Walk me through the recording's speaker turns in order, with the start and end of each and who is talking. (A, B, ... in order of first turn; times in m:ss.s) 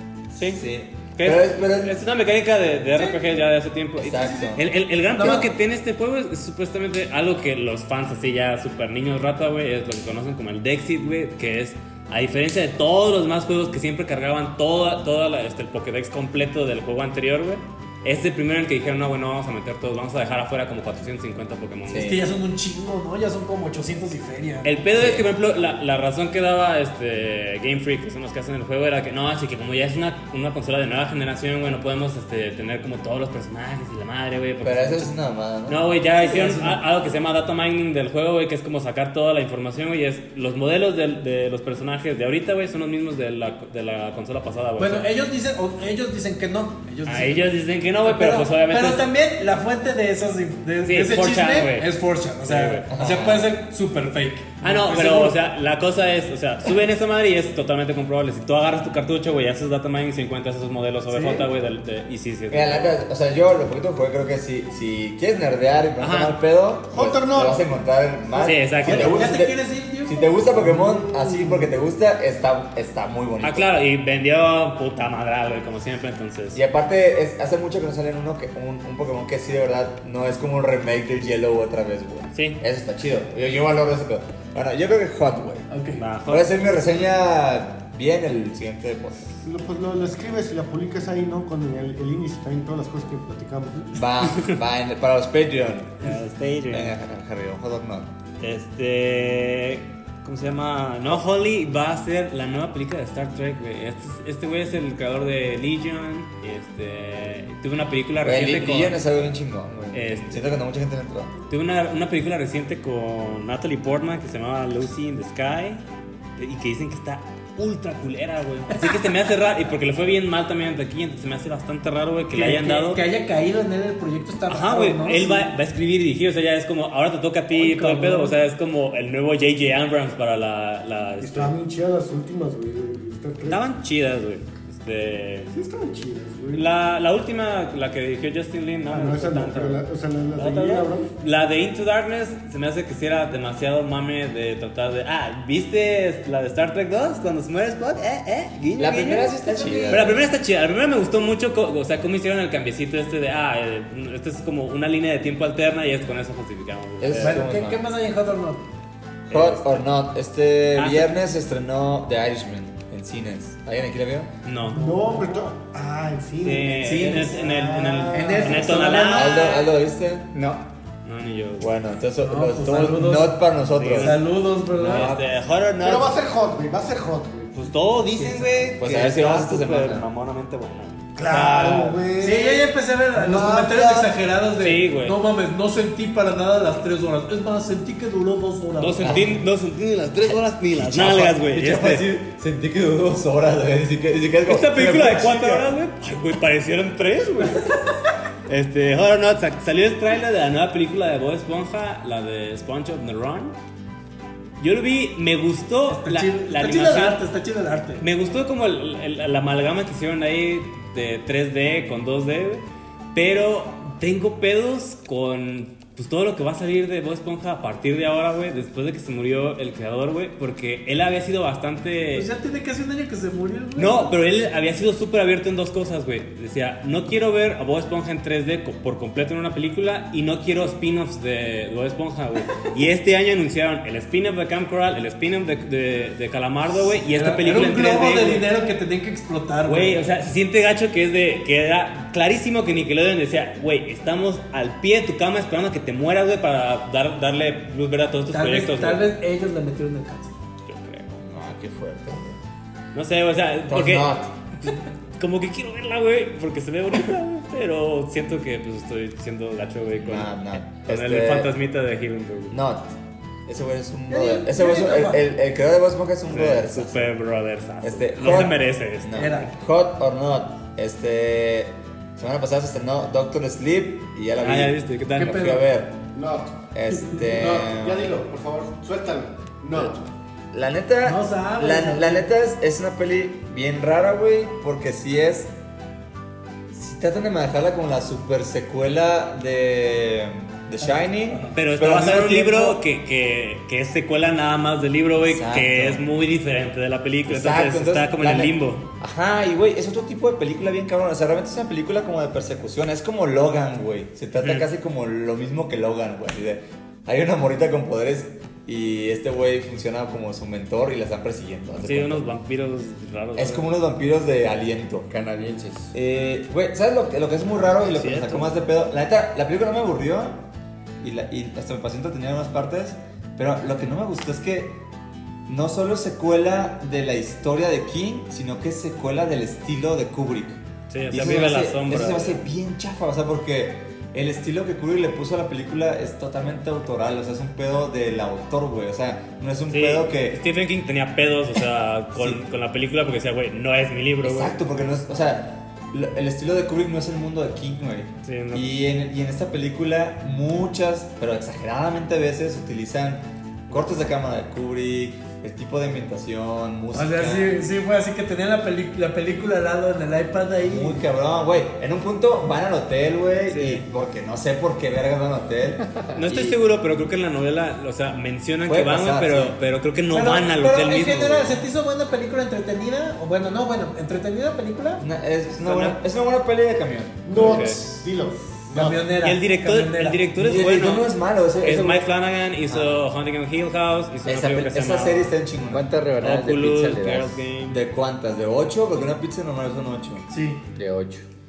0:00.3-0:00.6 A
0:00.4-0:02.0 B
0:01.2-0:22.2 A
0:03.0-0:03.2 C
0:04.0-0:04.7 B
0:04.3-0:04.5 C
0:05.1-0:05.5 C
0:21.9-0:22.3 B
0:22.0-0:24.8 C
0:24.6-0:35.1 A
0:25.0-0:25.3 B
0:34.6-0:35.8 B
0:35.7-0:45.1 A
0:36.2-0:36.8 C
0:44.8-0:55.4 C
0:47.1-0:49.1 A
0:50.8-0:51.9 A
0:52.4-0:52.8 A
0:52.9-0:53.5 B
0:54.6-1:02.9 A
1:01.1-1:01.4 C
1:02.5-1:13.7 B
1:06.0-1:06.4 A
1:06.9-1:07.7 D
1:08.4-1:09.2 A
1:08.8-1:11.0 C
1:10.8-1:11.6 D
1:13.4-1:16.6 A
1:16.5-1:25.7 B
1:22.3-1:22.6 A
1:25.7-1:26.0 C
1:26.0-1:26.5 A
1:26.3-1:29.4 B
1:29.4-1:34.0 D
1:33.9-1:36.1 B
1:34.3-1:34.6 A
1:36.0-1:37.0 A
1:36.7-1:38.1 B
1:38.4-1:49.0 A
1:48.2-1:51.3 B
1:49.9-1:50.4 A
1:51.5-1:55.8 A
1:56.4-2:03.0 A
2:02.3-2:05.5 C
2:04.5-2:11.6 A
2:07.5-2:08.4 C
2:11.2-2:13.6 D
2:13.5-2:15.5 A
2:15.5-2:16.7 D
2:16.5-2:19.8 A
2:18.9-2:21.1 D
2:20.4-2:29.4 A
2:28.8-2:30.2 B
2:29.5-2:30.2 C
2:29.9-2:37.4 A
2:37.0-2:37.8 B
2:37.2-2:38.6 C
2:39.3-2:39.7 A
2:39.3-2:44.3 B
2:40.8-2:41.2 A
2:44.4-2:44.9 A
2:44.7-2:48.8 D
2:44.7-2:45.3 C
2:46.4-2:49.6 A
2:46.9-2:47.4 C
2:47.9-2:50.5 B
2:48.1-2:49.7 C
2:51.0-2:51.7 A
2:51.6-2:54.2 B
2:52.2-2:53.4 C
2:53.8-2:56.2 A
2:54.0-2:55.2 C
2:54.7-2:55.2 B
2:55.8-2:57.8 D
2:57.5-3:01.9 A
2:58.1-3:00.1 B
3:01.2-3:04.1 D
3:01.3-3:01.9 B
3:02.2-3:09.4 C
3:04.6-3:05.2 A
3:08.8-3:12.1 A
3:09.0-3:09.4 B
3:10.2-3:15.7 B
3:14.4-3:17.8 A
3:18.5-3:23.6 A
3:24.6-3:27.2 A
3:25.9-3:28.0 C
3:28.0-3:42.3 A
3:42.2-3:44.1 C
3:43.8-3:58.5 A
3:56.8-4:00.0 C
3:59.6-4:09.1 A
4:08.3-4:10.3 C
4:10.7-4:11.2 A
4:11.2-4:12.4 B
4:12.9-4:22.6 A
4:13.7-4:14.3 B
4:20.0-4:21.5 B
4:22.5-4:22.9 B
4:23.5-4:27.1 B
4:24.1-4:25.2 C
4:26.3-4:29.5 A
4:27.8-4:36.0 B
4:29.2-4:29.5 C
4:34.4-4:35.5 A
4:35.2-4:35.6 C
4:36.1-4:36.6 D
4:36.7-4:38.2 B
4:37.2-4:40.1 D
4:40.5-4:45.5 B
4:41.0-4:42.3 C
4:46.7-4:52.8 B
4:51.3-4:51.6 C
4:51.6-4:58.9 A
4:55.2-4:56.1 B
4:57.3-5:12.3 B
5:04.4-5:04.7 A
5:11.8-5:13.7 A
5:13.4-5:15.1 B
5:15.1-5:15.9 E
5:15.9-5:20.4 B
5:17.7-5:18.6 A
5:21.0-5:24.8 B
5:25.5-5:40.4 B
5:30.9-5:32.4 A
5:39.7-5:44.6 A
5:42.2-5:42.4 B
5:44.2-5:57.6 B
5:48.2-5:48.6 A
5:53.7-5:54.0 A
5:56.9-6:01.0 C
6:00.6-6:06.6 B
6:03.5-6:03.8 A
6:06.1-6:11.7 A
6:08.6-6:09.6 B
6:10.1-6:15.0 C
6:15.0-6:17.7 B
6:15.6-6:16.0 A
6:17.3-6:19.1 D
6:17.3-6:17.8 A
6:18.7-6:20.2 C
6:19.2-6:25.3 A
6:20.4-6:22.0 B
6:22.7-6:23.0 B
6:24.2-6:25.9 B
6:25.7-6:27.4 E
6:26.2-6:27.8 A
6:27.7-6:30.3 B
6:30.3-6:30.6 C
6:30.8-6:31.3 E